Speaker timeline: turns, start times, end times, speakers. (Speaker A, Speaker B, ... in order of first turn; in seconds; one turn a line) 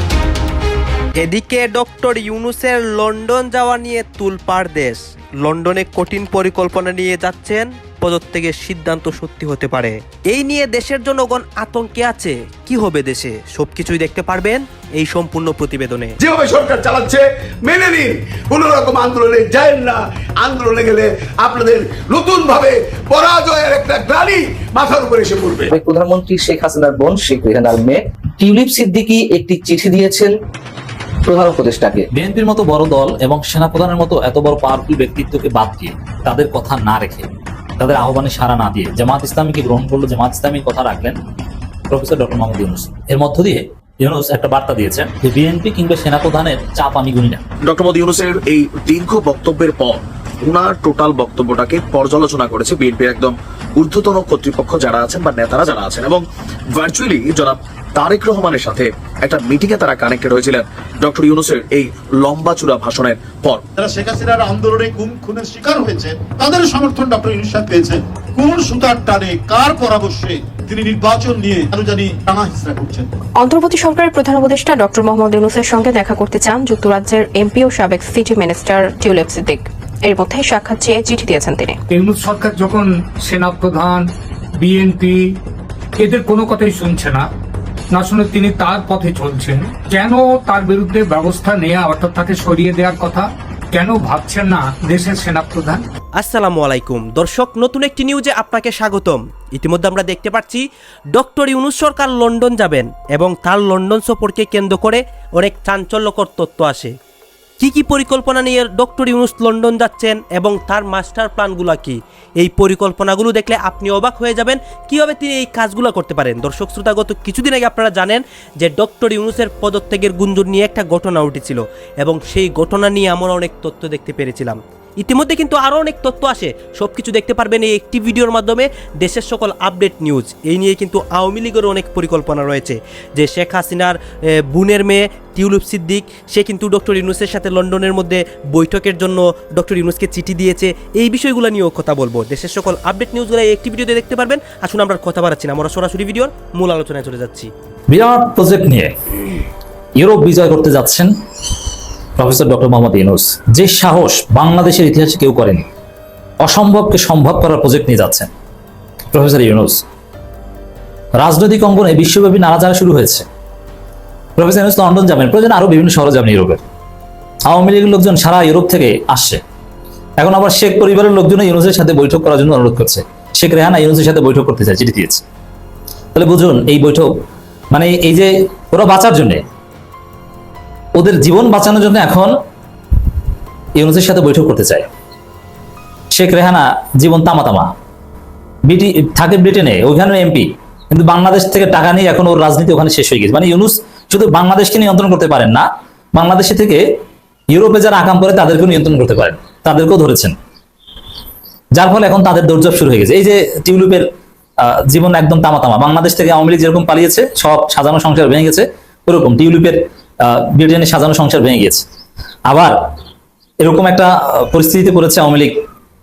Speaker A: 1.2-16.1
Speaker B: 16.2-25.7
Speaker C: 25.7-30.3
Speaker C: 31.2-32.1
Speaker D: 32.1-41.2
Speaker D: 41.9-47.4
Speaker E: 47.6-63.6
Speaker F: 63.8-73.1
Speaker G: 73.4-81.8
Speaker H: 81.9-85.3
Speaker H: 86.0-87.3
Speaker H: 87.9-95.8
Speaker A: 96.2-100.6
Speaker A: 101.1-106.9
Speaker A: 107.6-134.0
Speaker A: 134.5-147.5
Speaker D: 147.9-148.9
Speaker D: 149.9-151.1
Speaker D: 152.2-155.7
Speaker D: 156.4-158.3
Speaker D: 159.1-159.8
Speaker D: 161.1-163.2
Speaker D: 164.4-166.6
Speaker D: 167.4-169.4
Speaker D: 170.2-175.2
Speaker D: 176.1-177.1
Speaker D: 177.7-179.4
Speaker D: 180.9-182.3
Speaker D: 183.8-184.9
Speaker D: 186.1-187.7
Speaker D: 188.7-197.0
Speaker D: 197.5-200.4
Speaker D: 201.7-204.1
Speaker D: 204.6-211.8
Speaker D: 212.5-212.8
Speaker D: 213.6-215.6